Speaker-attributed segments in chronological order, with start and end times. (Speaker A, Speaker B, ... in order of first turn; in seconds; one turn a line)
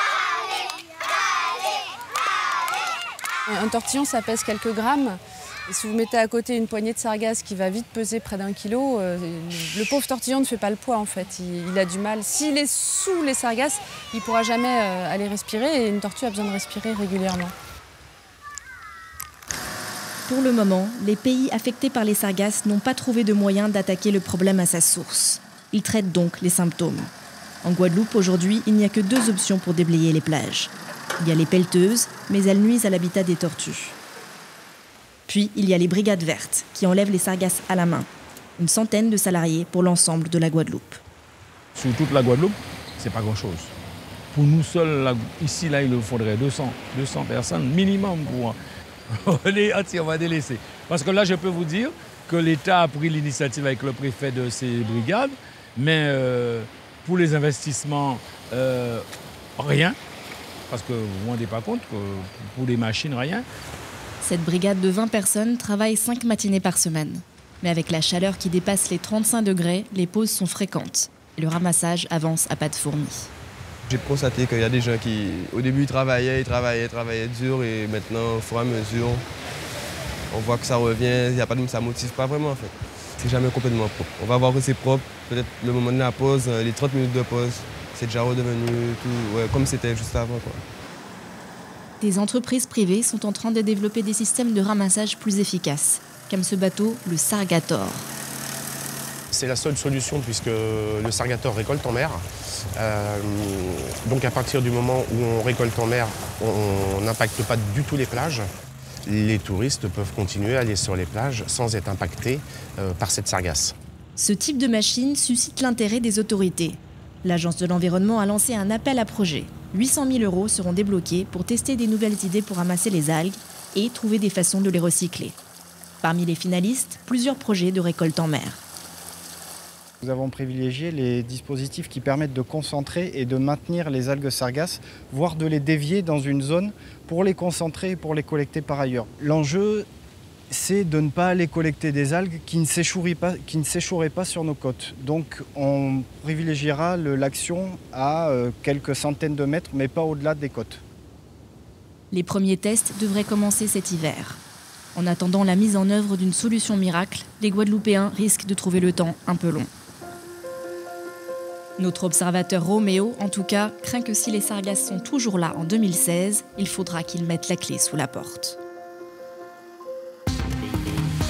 Speaker A: 3.5-17.5
Speaker B: 20.3-27.1
Speaker B: 27.6-34.0
Speaker B: 35.3-41.0
Speaker C: 41.8-43.7
Speaker C: 44.3-48.5
Speaker C: 49.2-59.0
Speaker C: 59.6-60.0
Speaker C: 60.7-63.4
Speaker B: 64.2-73.3
Speaker D: 73.9-79.2
Speaker D: 80.3-90.6
Speaker B: 92.0-98.1
Speaker E: 99.3-102.2
Speaker E: 102.7-108.5
Speaker E: 109.0-113.7
Speaker B: 114.2-125.3
Speaker B: 126.0-128.6
Speaker F: 130.0-139.9
Speaker F: 140.5-150.8
Speaker B: 152.1-154.4
Speaker B: 154.9-159.7
Speaker B: 161.8-168.6